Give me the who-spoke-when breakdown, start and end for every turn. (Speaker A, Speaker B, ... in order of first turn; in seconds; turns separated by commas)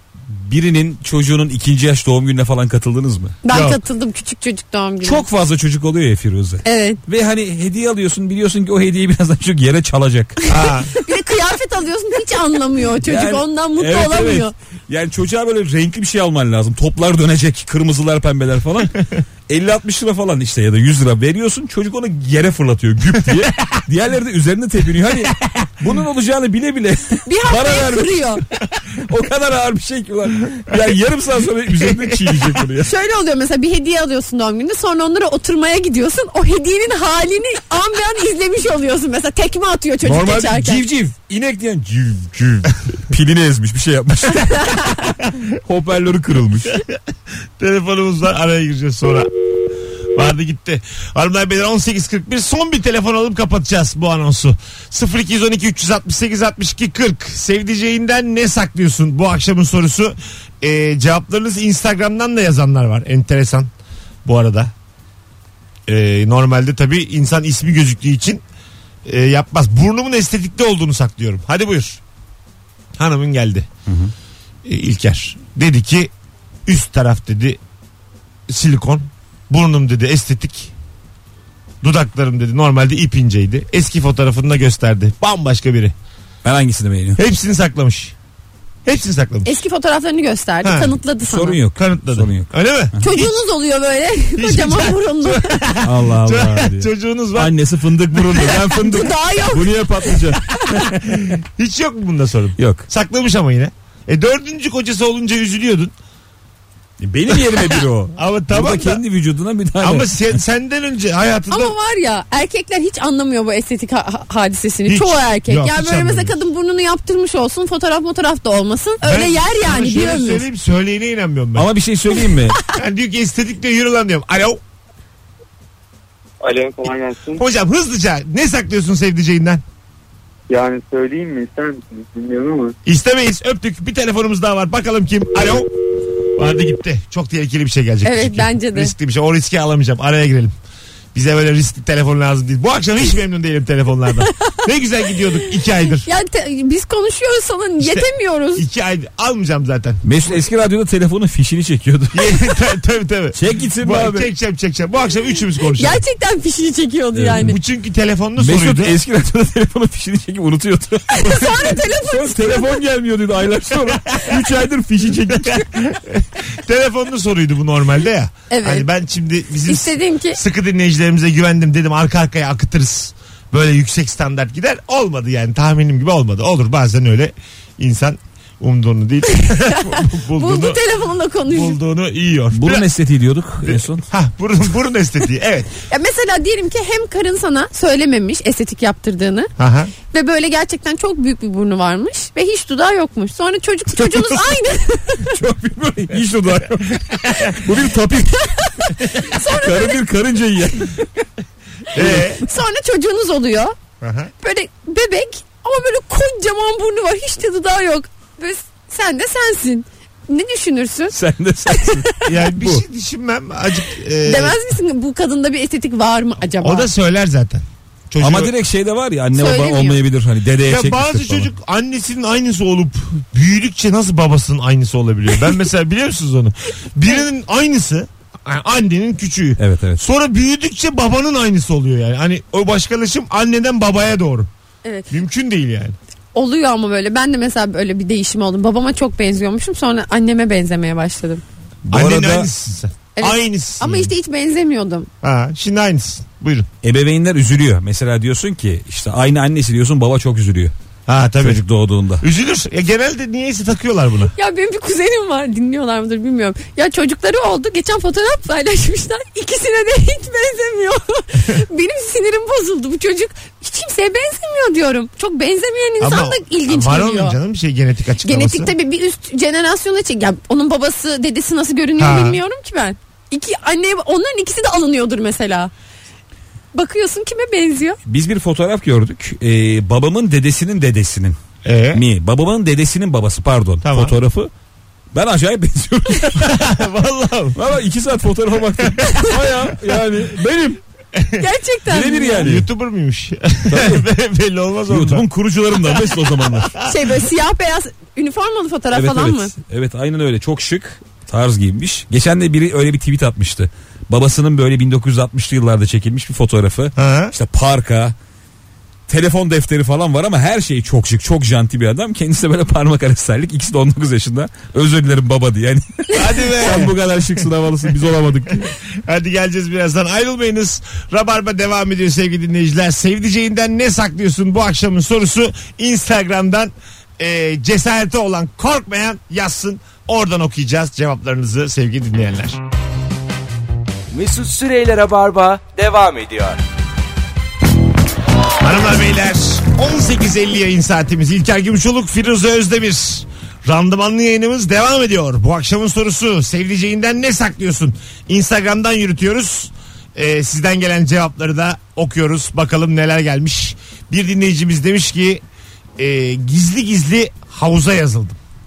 Speaker A: 0.3-3.4, Speaker B: 3.4-5.2, Speaker C: 3.5-3.8, Speaker A: 5.0-10.4, Speaker B: 6.7-7.0, Speaker C: 10.5-10.9, Speaker B: 10.9-14.5, Speaker A: 13.0-19.0, Speaker A: 19.5-28.4, Speaker B: 27.3-28.4, Speaker A: 28.9-32.9, Speaker C: 31.8-32.5, Speaker B: 32.8-40.8, Speaker A: 40.0-46.8, Speaker B: 44.4-44.9, Speaker C: 47.6-49.3, Speaker C: 50.1-63.7, Speaker C: 64.2-64.7, Speaker C: 65.9-68.4, Speaker C: 69.1-72.0, Speaker C: 73.0-73.7, Speaker A: 73.9-74.1, Speaker C: 74.7-76.1, Speaker C: 76.7-77.6, Speaker C: 78.5-80.7, Speaker C: 81.8-85.9, Speaker A: 86.4-87.2, Speaker C: 87.2-88.2, Speaker C: 88.8-89.5, Speaker B: 89.5-91.6, Speaker C: 90.6-91.0, Speaker A: 91.2-92.5, Speaker C: 91.8-93.4, Speaker B: 93.0-95.6, Speaker C: 94.4-97.6, Speaker A: 95.8-101.2, Speaker C: 98.1-98.6, Speaker B: 98.7-100.1, Speaker C: 100.8-105.9, Speaker A: 102.6-102.9, Speaker A: 107.0-110.2, Speaker C: 107.3-109.0, Speaker C: 109.8-111.8, Speaker B: 111.5-120.5, Speaker C: 114.9-116.4, Speaker C: 119.0-121.7, Speaker A: 121.5-122.6, Speaker C: 122.7-124.6, Speaker D: 126.4-127.5, Speaker C: 127.4-129.6, Speaker D: 130.5-132.8, Speaker C: 132.9-135.7, Speaker C: 136.4-140.5, Speaker B: 138.0-138.9, Speaker C: 141.1-146.1, Speaker B: 145.4-148.7, Speaker C: 147.8-150.3, Speaker A: 150.1-152.5, Speaker C: 152.1-156.0, Speaker A: 153.3-154.3, Speaker B: 155.8-157.6, Speaker A: 157.2-157.5, Speaker C: 157.3-159.0, Speaker A: 158.4-165.7, Speaker B: 161.1-162.8, Speaker C: 165.3-180.8, Speaker B: 168.5-168.9, Speaker B: 169.7-170.4, Speaker B: 179.4-181.8, Speaker C: 181.5-182.9, Speaker A: 182.5-184.1, Speaker C: 183.7-185.7, Speaker B: 185.9-189.5, Speaker C: 189.6-189.9, Speaker B: 190.1-195.4, Speaker A: 194.0-194.4, Speaker A: 195.3-198.5, Speaker B: 198.4-200.0, Speaker A: 199.1-201.1, Speaker C: 201.9-202.4, Speaker A: 202.0-202.3, Speaker B: 202.4-203.7, Speaker C: 204.0-204.3, Speaker B: 204.4-211.2, Speaker A: 211.1-212.8, Speaker B: 211.7-212.2, Speaker C: 212.2-214.6, Speaker B: 214.2-216.9, Speaker C: 216.6-218.5, Speaker A: 218.2-221.5, Speaker B: 219.3-220.0, Speaker C: 220.6-234.5, Speaker A: 229.6-230.0, Speaker B: 234.8-235.1, Speaker C: 235.1-236.0, Speaker B: 236.3-241.4, Speaker A: 241.9-242.5, Speaker C: 241.9-244.1, Speaker B: 243.2-245.1, Speaker C: 245.2-246.7, Speaker A: 246.8-250.7, Speaker C: 251.1-251.6, Speaker A: 251.4-252.2, Speaker C: 252.2-254.3, Speaker B: 254.4-267.4, Speaker C: 266.0-268.7, Speaker B: 268.2-275.7, Speaker C: 272.0-272.4, Speaker B: 276.7-278.0, Speaker A: 278.1-281.4, Speaker C: 281.6-282.0, Speaker A: 281.9-284.5, Speaker C: 283.8-284.1, Speaker A: 285.1-286.7, Speaker C: 286.4-287.6, Speaker A: 287.6-290.8, Speaker C: 291.1-291.4, Speaker B: 291.4-292.5, Speaker A: 291.9-292.7, Speaker C: 292.4-295.2, Speaker A: 293.7-294.1, Speaker A: 294.9-296.7, Speaker C: 295.8-297.1, Speaker B: 296.9-299.5, Speaker A: 298.9-308.1, Speaker C: 307.0-307.3, Speaker A: 309.1-318.7, Speaker C: 316.1-316.9, Speaker C: 318.7-332.6, Speaker E: 334.1-336.6, Speaker C: 338.6-355.4, Speaker C: 356.0-358.4